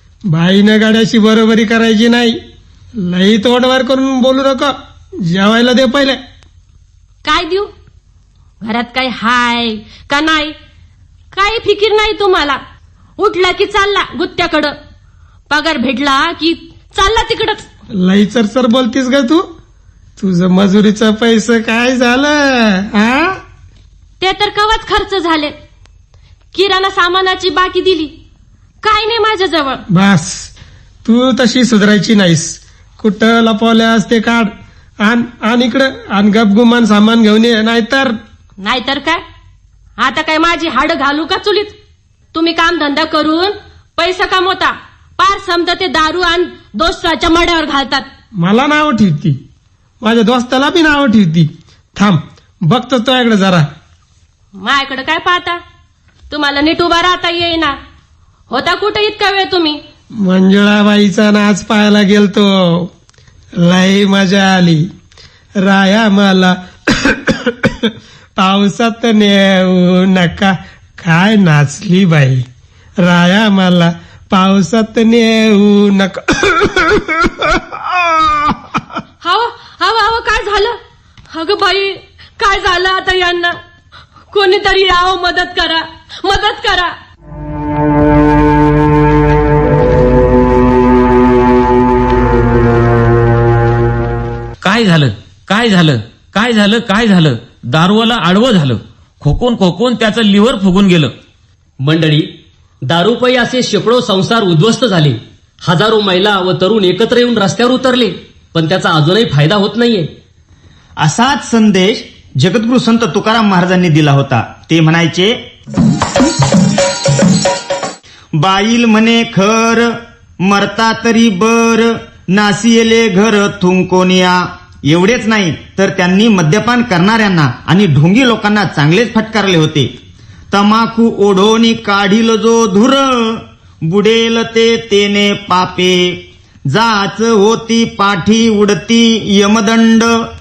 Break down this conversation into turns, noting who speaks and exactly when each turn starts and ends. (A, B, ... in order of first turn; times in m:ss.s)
0:00.3-0:02.4 A
0:03.0-0:04.7 A
0:05.3-0:06.2 A
0:07.2-0:07.7 B
0:08.6-0:10.6 B
0:11.3-0:12.6 B
0:13.2-0:14.8 B
0:15.5-0:17.7 B
0:18.0-0:19.5 A
0:20.2-0:23.4 A
0:24.2-0:25.6 B
0:26.5-0:28.1 B
0:28.8-0:29.8 B
0:29.9-0:30.5 A
0:31.0-0:34.5 A
0:35.0-0:38.1 A
0:38.6-0:39.2 B
0:40.0-0:41.8 B
0:42.3-0:48.1 B
0:48.4-0:49.4 A
0:50.0-0:53.7 A
0:54.6-0:55.6 B
0:56.3-0:57.8 B
0:58.5-0:59.8 B
1:00.2-1:02.9 A
1:03.6-1:04.9 A
1:05.6-1:12.4 A
1:13.0-1:18.6 A
1:19.2-1:20.8 B
1:21.3-1:23.6 B
1:24.3-1:26.9 B
1:34.6-1:41.1 C
1:41.8-1:42.3 D
1:42.9-1:50.1 D
1:51.0-1:55.4 E
1:58.4-1:59.9 E
2:00.4-2:09.9 E
2:10.5-2:20.1 E